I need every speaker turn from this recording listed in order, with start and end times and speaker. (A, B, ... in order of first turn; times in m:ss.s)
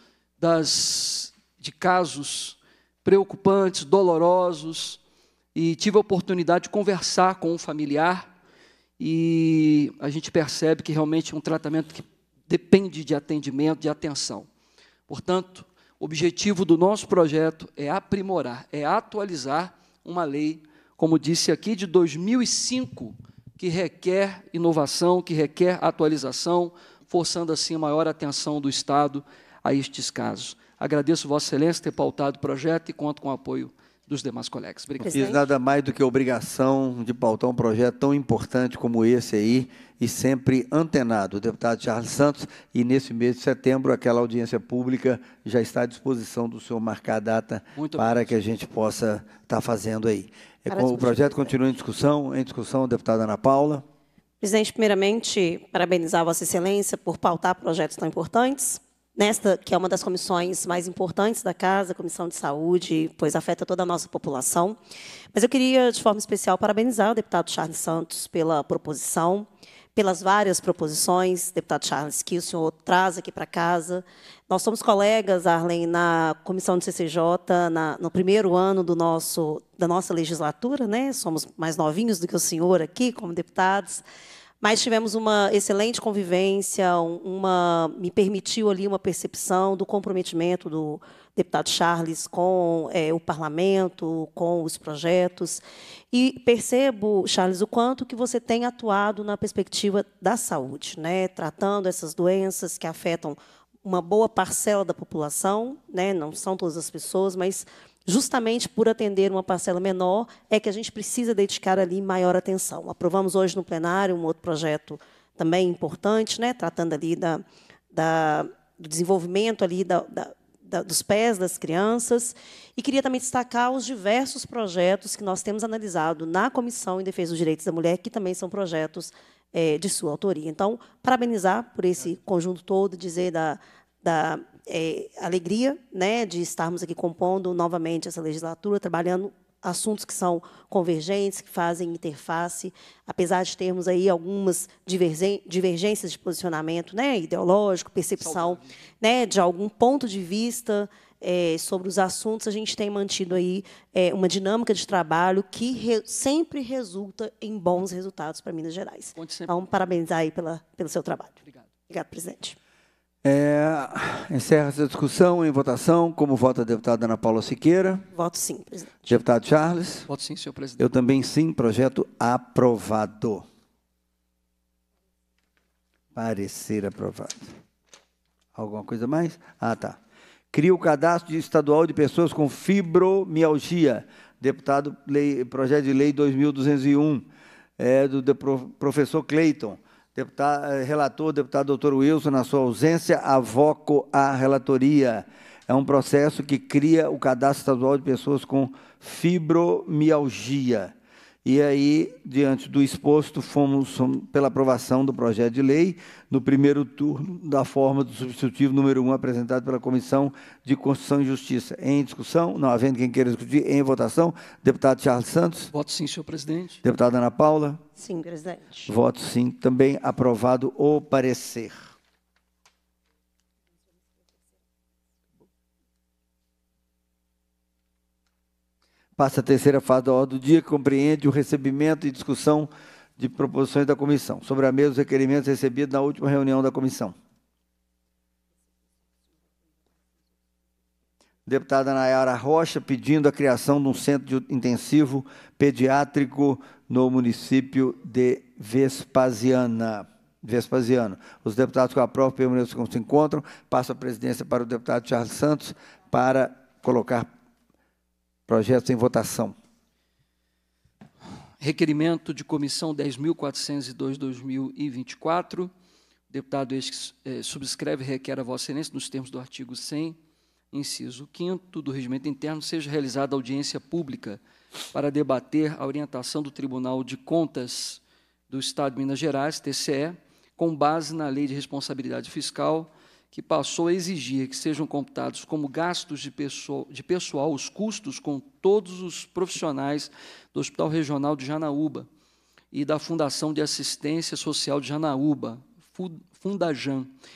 0:00.4-0:05.0 A
0:05.6-0:08.3 A
0:09.0-0:14.5 A
0:15.1-0:35.2 A
0:35.0-0:35.4 B
0:35.1-0:53.8 C
0:47.8-0:48.2 A
0:50.7-0:51.5 B
0:54.4-1:04.8 B
1:05.3-1:24.0 B
1:24.6-2:41.4 B
2:39.2-2:39.5 A
2:41.9-2:42.6 B
2:43.2-2:48.1 C
2:48.1-2:49.2 B
2:49.1-2:50.1 C
2:50.1-2:50.9 A
2:50.8-2:53.4 C
2:56.2-2:57.5 C
2:58.6-3:00.0 C
3:00.5-3:07.3 C
3:07.8-3:20.9 C
3:21.4-3:35.7 C
3:35.7-3:36.8 A
3:36.8-3:37.8 C
3:38.0-3:38.9 B
3:38.9-3:41.9 C
3:49.2-3:57.2 C
4:01.5-4:17.3 C
4:18.5-4:19.6 C
4:21.6-4:25.7 A
4:26.3-4:30.2 A
4:30.7-4:34.4 A
4:34.9-4:52.1 A
4:52.7-4:57.1 A